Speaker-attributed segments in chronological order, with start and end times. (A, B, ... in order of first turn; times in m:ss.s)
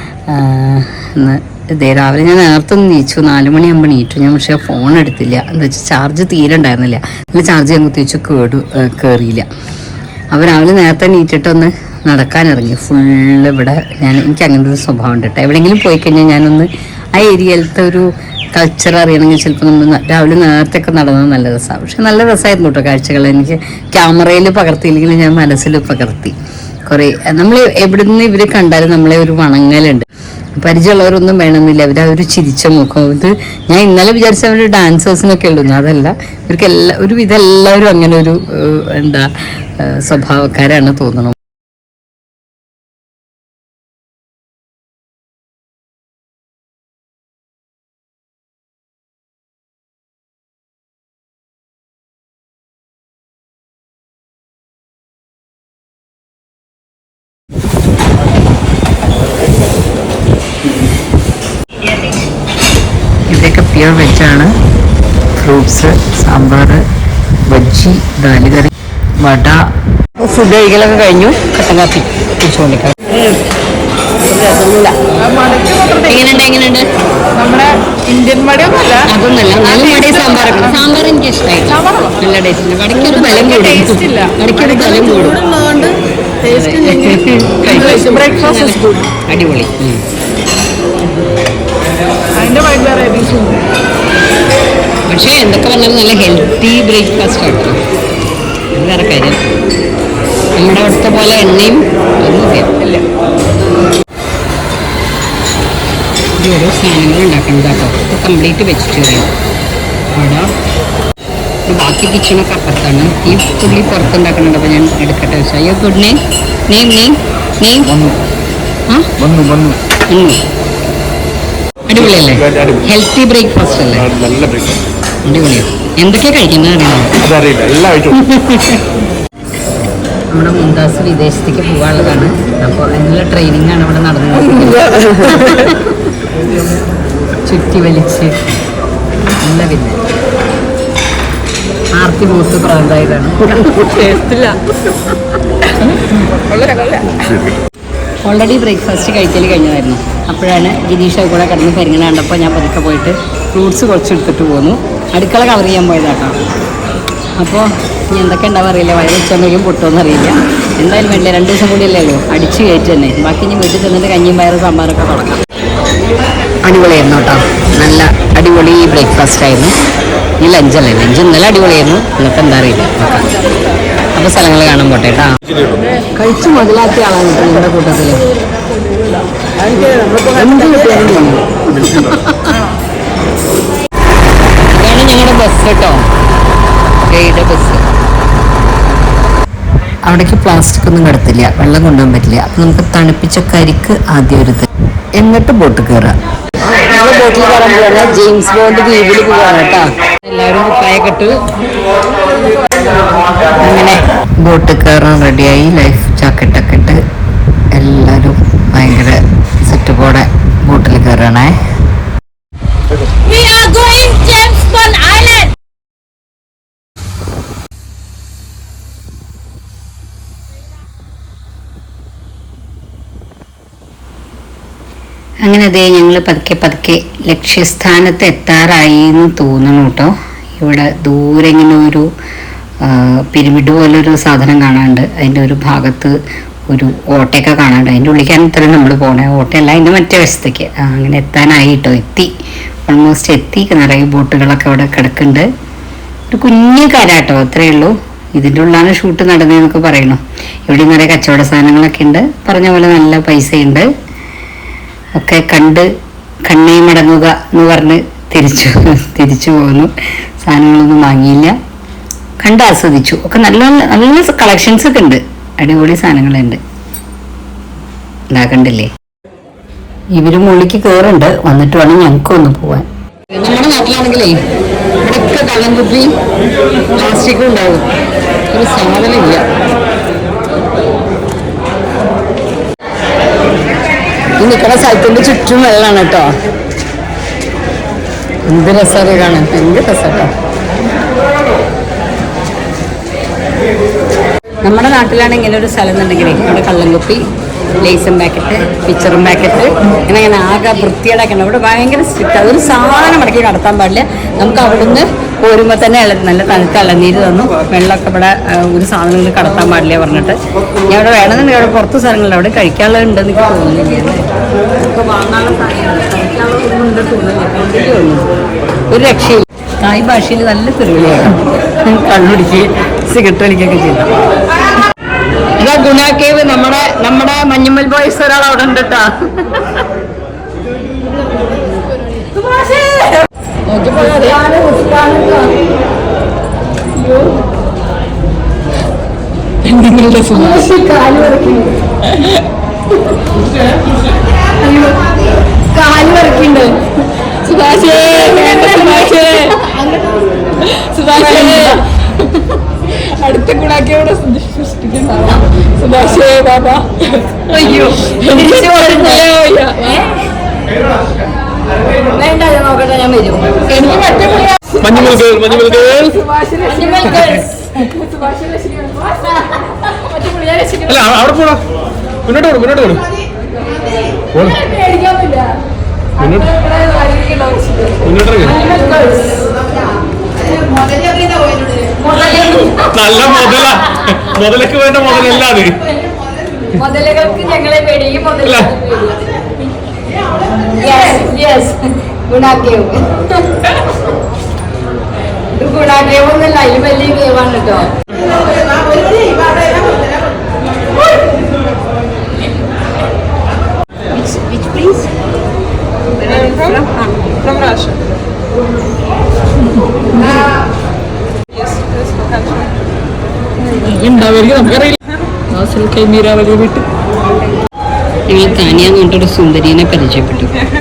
0:00.3-0:09.5 A
0:10.3-0:26.4 A
0:26.9-0:41.4 A
1:03.3-1:04.5 A
1:05.4-1:06.8 A
1:07.4-1:09.6 A
1:10.2-1:13.4 A
1:14.3-1:15.1 A
1:15.4-1:16.0 B
1:15.8-1:16.9 A
1:17.4-1:19.0 B
1:18.9-1:25.4 A
1:23.4-1:24.3 B
1:25.5-1:26.0 B
1:26.4-1:30.0 A
1:27.7-1:29.0 B
1:32.4-1:33.6 B
1:35.1-1:37.8 A
1:38.8-1:39.5 A
1:40.6-1:42.9 A
1:46.4-1:49.3 A
1:50.2-1:50.5 A
1:51.7-1:58.0 A
1:59.3-1:59.8 C
2:00.1-2:00.4 A
2:01.9-2:04.1 A
2:02.5-2:02.8 C
2:04.1-2:04.8 C
2:05.3-2:07.2 A
2:07.2-2:08.2 C
2:08.1-2:08.8 A
2:10.3-2:16.0 A
2:17.4-2:18.4 A
2:19.4-2:20.0 A
2:22.0-2:24.6 A
2:23.9-2:24.4 B
2:26.5-2:27.2 B
2:28.2-2:36.4 A
2:37.4-2:45.4 A
2:46.6-2:49.7 A
2:50.4-2:53.3 A
2:54.2-2:55.3 A
2:56.2-2:58.3 A
2:59.6-3:02.6 A
2:59.8-3:00.1 B
3:04.7-3:06.1 A
3:07.1-3:07.8 A
3:10.1-3:14.7 A
3:15.2-3:16.1 A
3:16.6-3:21.4 A
3:23.6-3:27.0 A
3:27.7-3:31.6 A
3:33.3-3:35.4 B
3:33.4-3:35.1 A
3:45.4-3:52.1 A
3:52.8-3:56.2 A
3:56.7-4:02.3 A
4:02.9-4:05.5 A
4:06.3-4:13.9 A
4:15.2-4:15.9 A
4:16.5-4:21.6 A
4:22.4-4:26.6 A
4:28.3-4:28.9 A
4:30.1-4:34.4 A
4:35.0-4:36.2 A
4:36.9-4:37.9 A
4:38.5-4:39.5 A
4:44.4-4:46.3 A
4:48.5-4:50.3 A
4:54.6-4:57.2 A
4:57.8-5:14.3 A
5:14.8-5:18.3 A
5:18.9-5:24.1 A
5:25.6-5:29.7 A
5:32.5-5:33.2 B
5:33.7-5:35.4 A
5:33.8-5:35.6 B
5:37.1-5:37.4 B
5:39.7-5:41.5 A
5:40.3-5:42.4 B
5:44.7-5:45.0 B
5:45.8-5:46.6 A
5:45.8-5:49.8 B
5:47.5-5:49.5 A
5:50.6-5:51.9 B
5:51.0-5:51.8 A
5:52.9-6:00.0 B
5:57.4-6:00.2 A
6:01.9-6:04.2 A
6:03.8-6:04.6 B
6:04.8-6:06.2 C
6:06.2-6:07.2 B
6:06.6-6:07.9 A
6:08.0-6:09.1 B
6:10.2-6:10.9 B
6:10.9-6:11.6 C
6:12.2-6:13.1 C
6:14.3-6:14.8 C
6:14.7-6:15.5 B
6:16.2-6:16.6 C
6:16.6-6:18.0 B
6:18.0-6:18.6 C
6:18.6-6:19.4 A
6:22.0-6:22.9 A
6:22.9-6:25.8 C
6:26.7-6:29.3 A
6:30.8-6:33.6 A
6:35.5-6:37.9 A
6:44.2-6:45.1 A
6:46.2-6:46.9 A
6:46.3-6:46.7 B
6:47.4-6:47.9 B
6:50.2-6:50.5 B
6:53.6-6:55.0 B
6:55.5-6:56.9 B
6:58.3-7:00.5 A